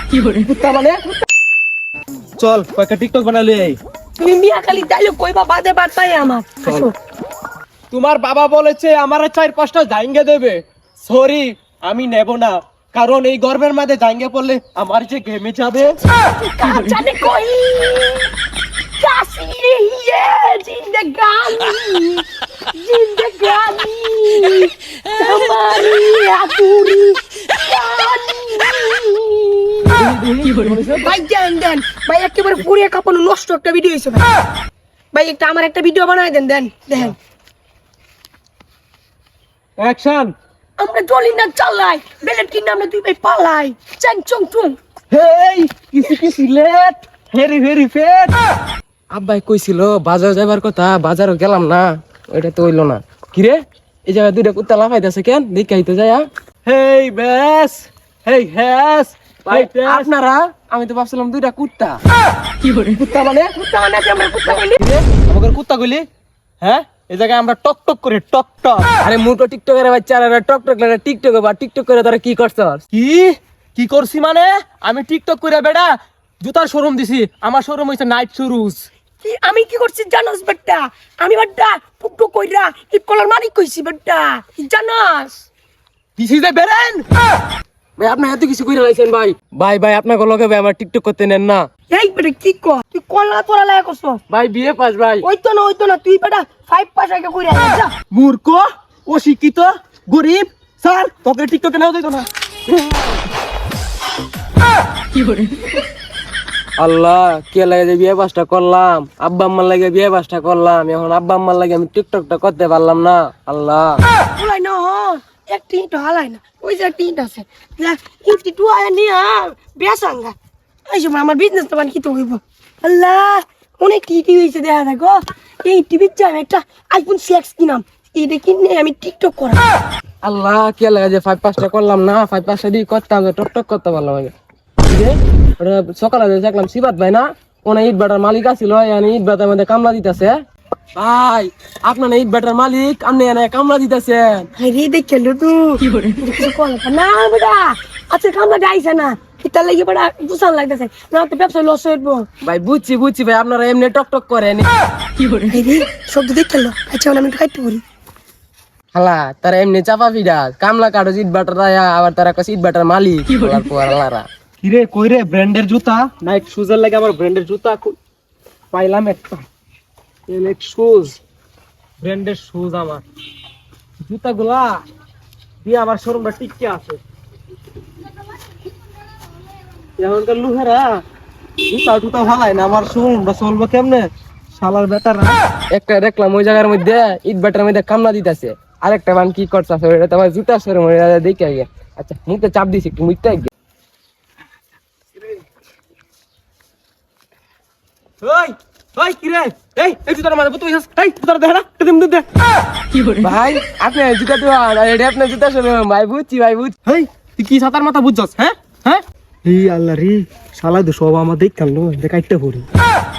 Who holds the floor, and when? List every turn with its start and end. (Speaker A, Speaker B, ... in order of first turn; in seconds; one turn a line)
Speaker A: 0.3-1.0
Speaker B: 2.4-3.8
Speaker C: 4.2-7.0
Speaker B: 7.9-16.0
Speaker C: 16.0-18.3
Speaker C: 19.0-30.1
Speaker B: 30.0-31.0
Speaker A: 30.4-31.1
Speaker C: 31.0-34.3
Speaker C: 35.1-37.2
Speaker B: 39.8-40.3
Speaker C: 40.8-44.8
Speaker B: 45.1-48.4
Speaker A: 49.1-56.3
Speaker B: 56.6-60.1
Speaker A: 59.5-62.0
Speaker A: 62.7-63.5
Speaker C: 63.5-64.8
Speaker B: 64.8-66.1
Speaker B: 66.6-68.9
Speaker A: 69.0-72.8
Speaker B: 72.9-78.8
Speaker C: 79.2-85.4
Speaker B: 86.2-87.0
Speaker A: 88.0-91.7
Speaker C: 91.9-94.2
Speaker A: 94.3-95.3
Speaker C: 95.2-97.9
Speaker B: 98.1-102.3
Speaker A: 106.8-114.0
Speaker C: 114.4-120.3
Speaker C: 120.9-129.7
Speaker A: 130.2-134.3
Speaker A: 134.8-140.3
Speaker A: 140.9-144.5
Speaker C: 144.6-152.3
Speaker A: 152.4-154.7
Speaker C: 155.5-157.8
Speaker A: 158.9-164.3
Speaker B: 164.6-168.0
Speaker B: 168.7-169.4
Speaker B: 170.3-171.2
Speaker B: 172.0-173.0
Speaker B: 174.0-174.8
Speaker B: 175.6-177.0
Speaker B: 180.0-181.0
Speaker B: 181.7-185.4
Speaker A: 185.7-193.5
Speaker B: 198.2-202.2
Speaker A: 203.2-206.8
Speaker B: 206.8-212.7